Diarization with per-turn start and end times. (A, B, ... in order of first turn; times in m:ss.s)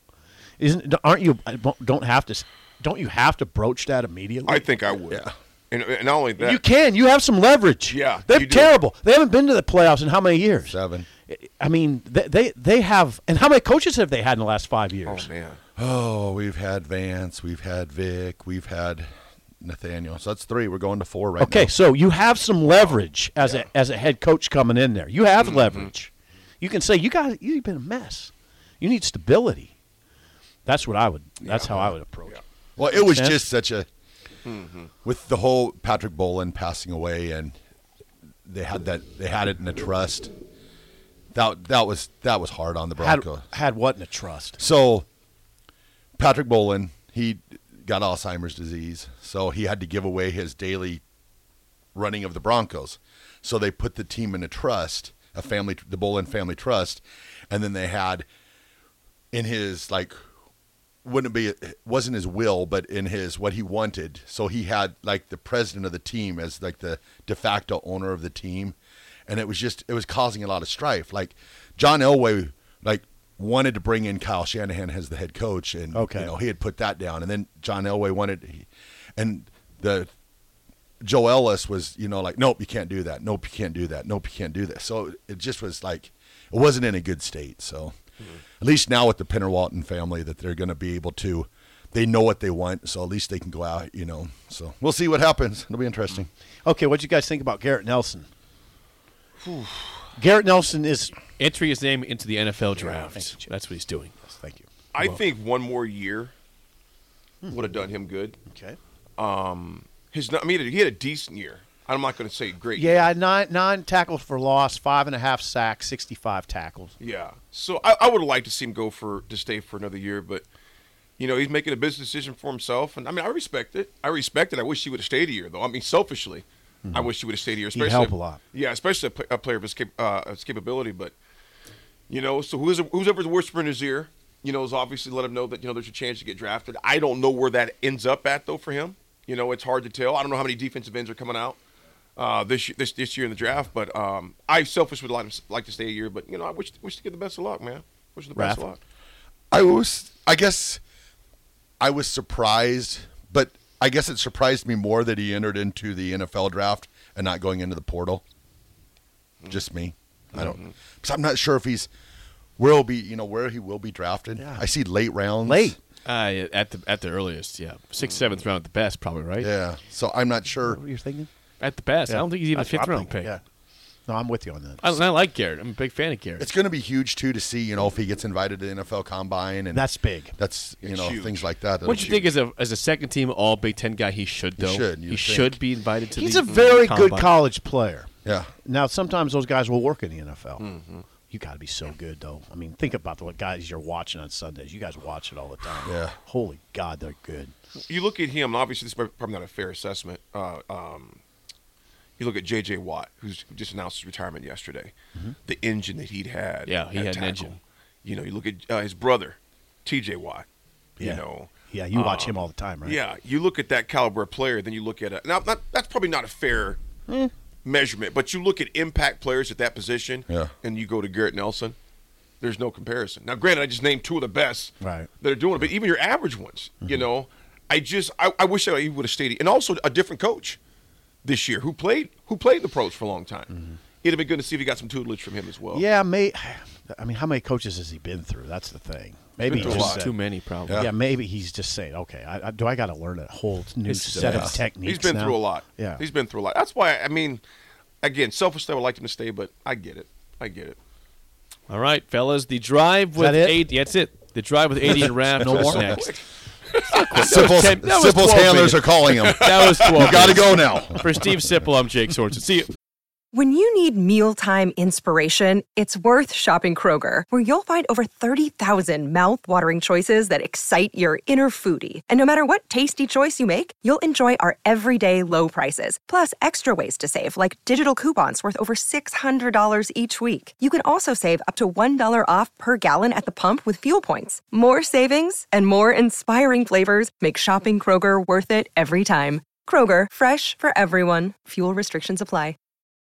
0:00.6-0:04.7 A
0:04.5-0:06.6 B
0:06.4-0:15.3 A
0:07.9-0:08.7 B
0:10.7-0:11.1 C
0:15.1-0:15.6 B
0:15.8-0:19.1 C
0:19.6-0:21.7 C
0:21.4-0:29.7 A
0:25.4-0:25.9 B
0:30.7-0:33.5 A
0:31.4-0:32.4 B
0:32.8-0:33.9 C
0:34.4-0:34.9 B
0:35.0-0:37.6 C
0:38.5-0:40.3 C
0:41.3-0:43.5 C
0:43.0-0:44.6 A
0:44.6-0:45.1 C
0:46.2-0:51.0 C
0:52.0-0:58.3 C
0:59.3-1:00.2 C
1:01.0-1:08.8 C
1:09.3-1:20.1 C
1:15.9-1:16.3 A
1:21.0-1:28.0 C
1:28.6-1:36.3 C
1:36.6-1:38.3 A
1:40.2-1:41.2 A
1:41.4-1:44.2 D
1:42.7-1:43.5 A
1:44.2-1:44.6 A
1:44.9-1:46.3 B
1:47.5-1:48.4 B
1:48.5-1:48.8 A
1:49.2-1:53.0 B
1:52.8-1:57.0 A
1:57.0-2:00.4 B
2:01.2-2:11.2 B
2:06.9-2:07.1 A
2:07.7-2:08.4 A
2:12.1-2:21.6 B
2:22.2-2:28.8 B
2:28.4-2:28.7 A
2:29.5-2:30.8 C
2:31.8-2:38.2 C
2:39.5-2:41.9 C
2:40.4-2:40.7 B
2:42.6-2:45.8 C
2:44.4-2:44.7 A
2:45.4-2:45.8 A
2:46.1-2:49.5 D
2:49.4-2:50.8 C
2:50.6-2:51.3 A
2:51.6-2:53.3 D
2:52.1-2:53.4 A
2:54.1-2:54.9 A
2:54.8-2:56.5 D
2:56.4-3:02.3 C
2:59.7-3:00.4 A
3:00.8-3:01.5 B
3:01.8-3:07.3 D
3:04.6-3:05.6 C
3:06.1-3:08.1 A
3:06.5-3:06.8 B
3:08.2-3:08.5 C
3:08.6-3:10.7 A
3:10.6-3:11.0 B
3:11.2-3:17.5 A
3:15.9-3:16.2 C
3:17.9-3:21.2 B
3:22.2-3:24.9 B
3:25.5-3:30.5 B
3:26.7-3:27.6 D
3:31.0-3:33.0 A
3:31.0-3:36.8 B
3:37.6-3:41.8 B
3:42.4-3:50.6 B
3:44.8-3:45.1 A
3:51.2-3:53.5 B
3:54.0-3:55.8 B
3:55.7-4:00.1 A
3:59.5-4:00.9 D
3:59.5-4:00.1 B
4:00.7-4:06.0 A
4:03.9-4:04.6 D
4:04.2-4:04.6 C
4:04.7-4:07.4 B
4:08.0-4:10.8 B
4:11.7-4:16.0 D
4:13.2-4:13.7 A
4:15.4-4:15.8 A
4:15.5-4:17.6 B
4:17.1-4:22.7 D
4:17.2-4:21.1 C
4:19.1-4:20.2 B
4:23.3-4:52.6 E